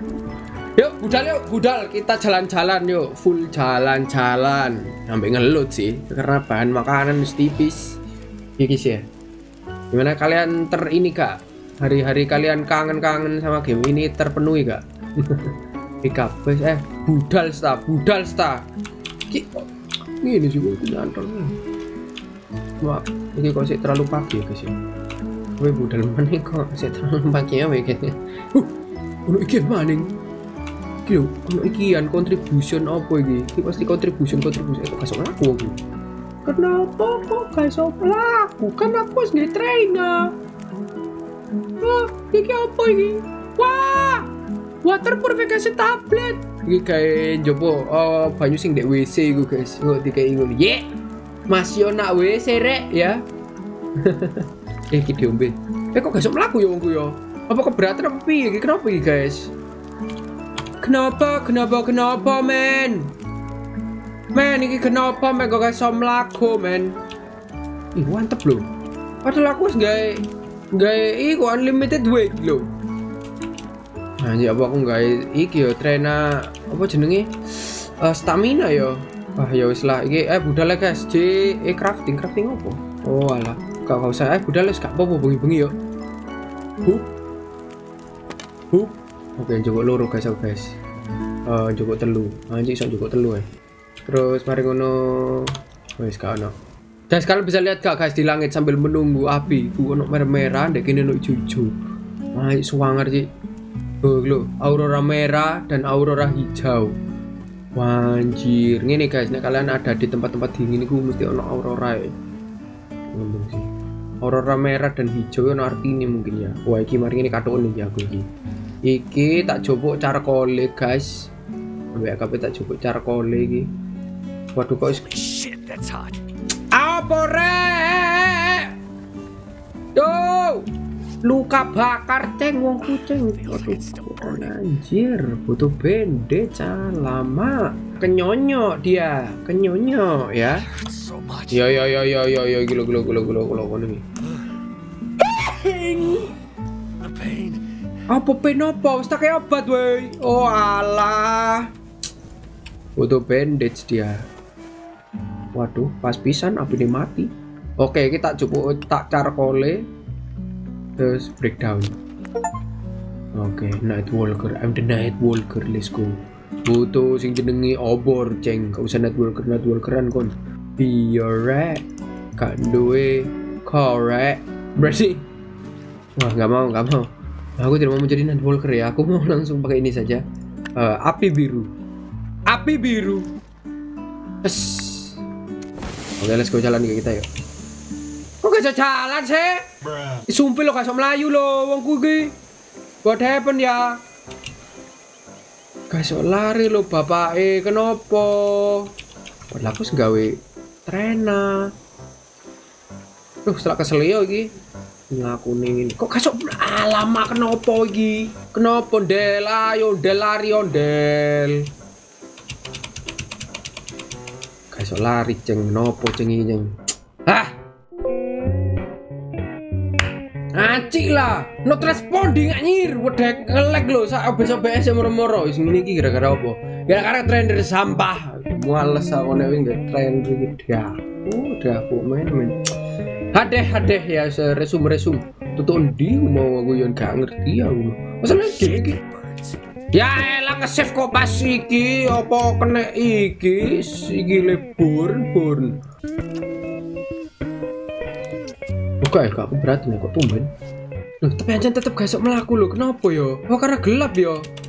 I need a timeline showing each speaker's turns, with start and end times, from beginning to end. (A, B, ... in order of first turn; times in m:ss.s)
0:00.8-0:07.9 A
0:08.6-0:09.0 A
0:09.9-0:18.6 A
0:19.3-0:19.7 A
0:20.2-0:21.6 A
0:22.8-0:24.8 A
0:25.6-0:28.7 A
0:29.3-0:30.1 A
0:31.0-0:35.8 A
0:36.4-0:40.3 A
0:41.8-0:44.3 A
0:44.8-0:50.8 A
0:51.5-0:53.2 A
0:54.0-0:59.5 A
1:00.8-1:03.1 A
1:04.4-1:07.0 A
1:08.0-1:08.6 A
1:09.2-1:12.7 A
1:14.2-1:25.8 A
1:26.8-1:27.1 A
1:28.7-1:30.8 A
1:31.5-1:33.5 A
1:34.1-1:36.5 A
1:37.1-1:41.7 A
1:42.3-1:43.3 A
1:44.0-1:46.9 A
1:47.8-1:52.1 A
1:53.1-1:53.7 A
1:54.2-1:58.3 A
1:58.9-2:01.3 A
2:01.9-2:03.7 A
2:04.6-2:05.0 A
2:04.9-2:06.3 B
2:06.7-2:08.7 A
2:10.0-2:10.7 A
2:11.2-2:20.6 A
2:12.9-2:14.5 B
2:20.4-2:21.7 B
2:21.5-2:24.0 A
2:25.2-2:26.3 B
2:25.7-2:26.2 A
2:27.0-2:27.7 B
2:28.1-2:31.7 A
2:33.0-2:34.2 A
2:35.6-2:39.8 A
2:41.0-2:41.9 A
2:43.4-2:51.8 A
2:52.4-2:55.3 A
2:56.2-2:57.1 A
2:57.6-3:00.2 A
3:00.8-3:01.7 A
3:02.5-3:03.3 A
3:04.4-3:05.2 A
3:06.2-3:07.3 A
3:08.4-3:09.6 A
3:10.3-3:12.3 A
3:13.0-3:14.0 A
3:15.9-3:18.9 A
3:19.5-3:21.7 A
3:23.5-3:24.5 A
3:25.1-3:31.7 A
3:34.7-3:36.7 A
3:37.3-3:37.5 A
3:40.6-3:52.6 A
3:53.3-3:59.0 A
3:58.4-3:59.6 B
3:59.9-4:05.8 A
4:09.0-4:10.5 A
4:11.2-4:14.4 A